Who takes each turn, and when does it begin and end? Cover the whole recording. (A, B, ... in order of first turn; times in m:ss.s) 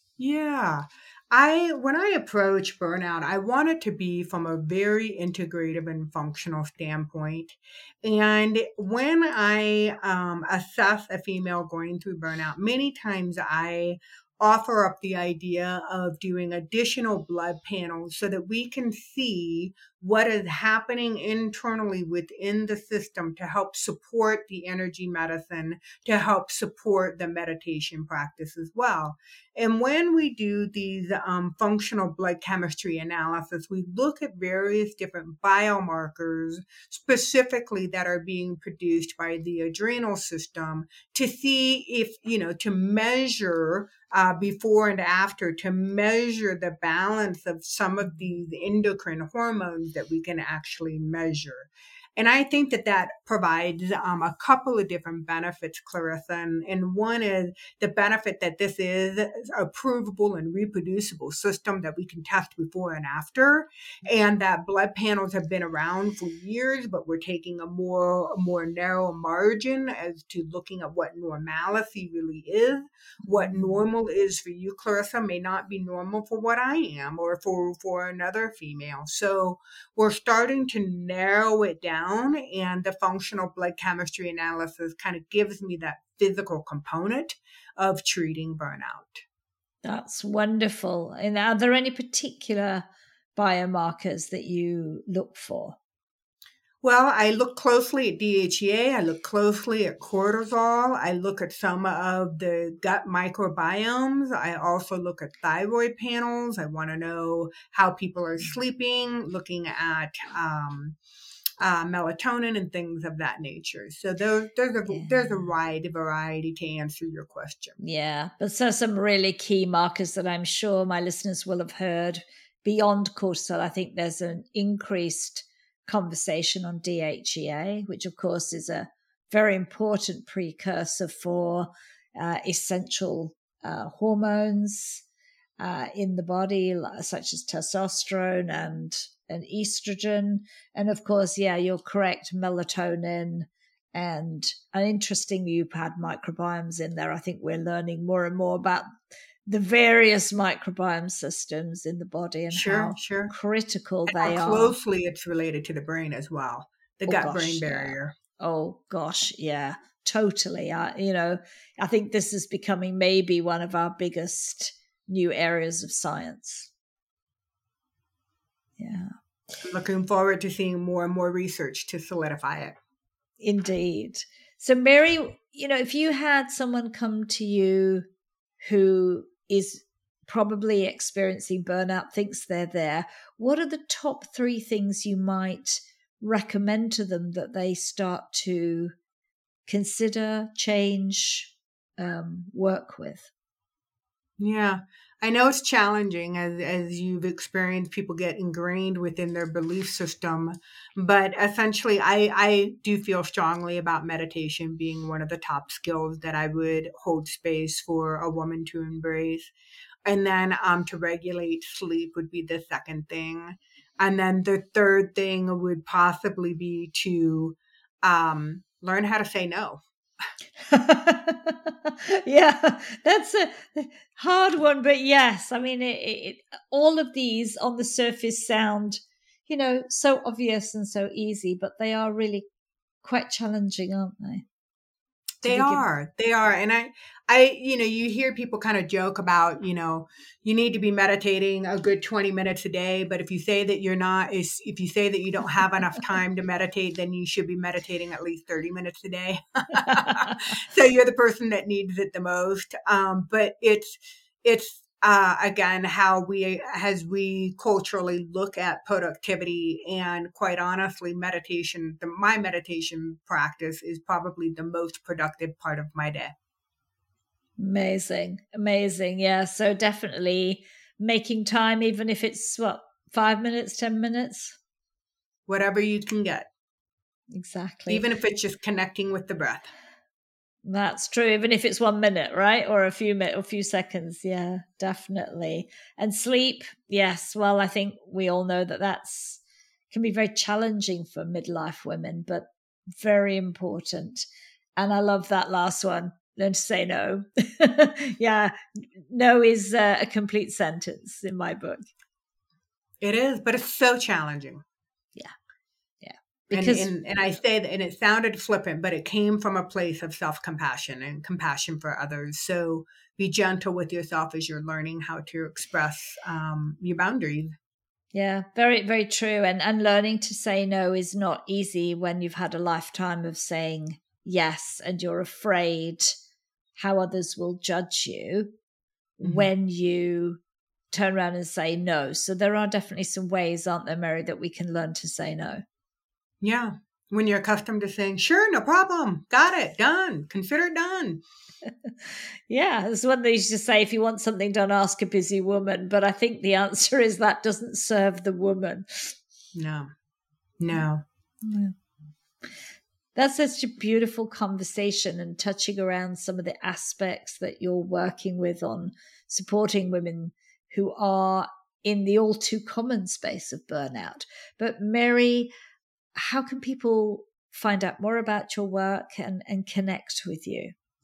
0:00.2-1:29.2 A
1:13.3-1:13.8 B
1:29.8-1:35.8 B
1:36.8-1:51.0 A
1:51.6-1:57.8 A
1:57.8-2:15.0 B
2:15.6-2:28.9 B
2:29.5-2:34.8 B
2:32.5-2:33.3 A
2:34.1-2:38.2 A
2:37.1-2:46.7 B
2:48.8-2:49.1 B
2:49.6-2:52.8 A
2:53.4-2:58.0 B
2:58.6-3:08.9 B
3:09.7-3:13.3 B
3:14.4-3:29.5 A
3:30.0-3:39.8 A
3:40.6-3:52.4 B
3:53.0-3:54.4 B
3:55.4-4:26.3 A
3:55.4-3:55.8 B
4:27.6-4:34.6 B
4:35.5-4:36.5 A
4:37.3-4:38.1 B
4:37.9-4:39.7 A
4:40.6-4:49.4 B
4:49.9-4:54.2 B
4:54.8-5:01.9 B
5:03.0-5:04.6 A
5:06.0-5:06.9 B
5:06.5-5:17.6 A
5:18.1-5:26.2 B
5:26.8-5:28.5 B
5:29.2-5:30.4 B
5:29.2-5:29.5 A
5:30.9-5:35.6 B
5:36.4-5:41.2 A
5:41.6-5:49.2 B
5:49.6-5:49.9 A
5:50.6-5:51.0 A
5:51.4-5:51.7 B
5:53.2-6:05.5 B
6:06.2-6:10.7 B